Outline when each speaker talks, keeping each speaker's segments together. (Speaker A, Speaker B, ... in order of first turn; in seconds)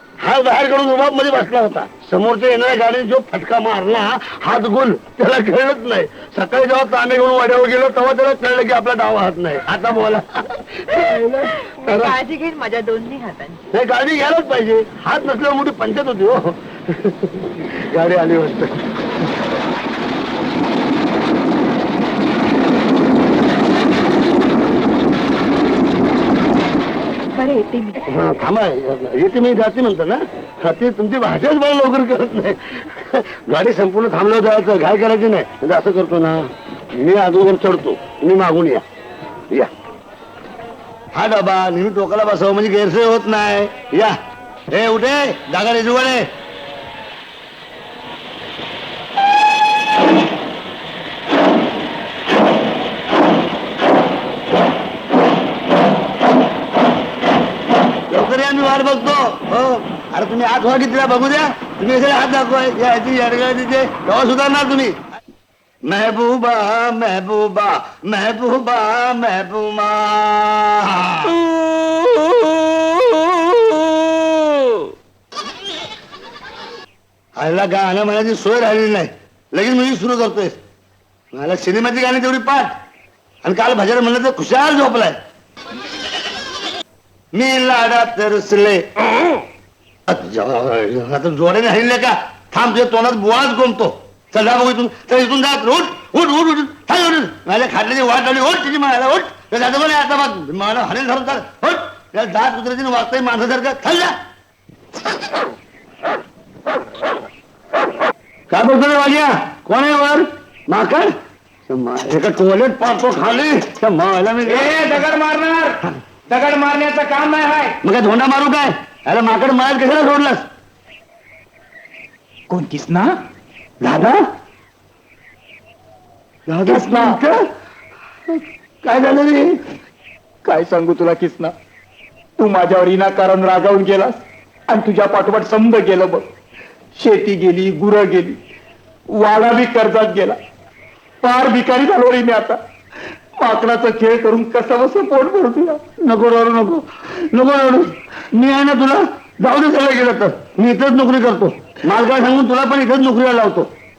Speaker A: 0.2-12.2, 13.7-19.0, 28.1-38.8, 41.1-44.2, 44.7-46.3, 58.1-65.0, 65.9-71.4, 77.4-80.6, 81.3-82.8, 83.4-85.2, 87.3-88.8, 90.1-104.1, 108.5-111.1, 111.7-114.9, 117.8-120.5, 123.8-124.2, 126.5-127.4, 128.3-129.6, 146.0-153.7
Speaker B: 11.0-13.7, 27.3-28.0
Speaker C: 114.5-117.8, 122.5-123.2, 126.7-127.2, 130.4-131.5, 132.4-136.3, 137.0-138.4, 139.1-140.4, 141.2-142.6, 143.4-145.8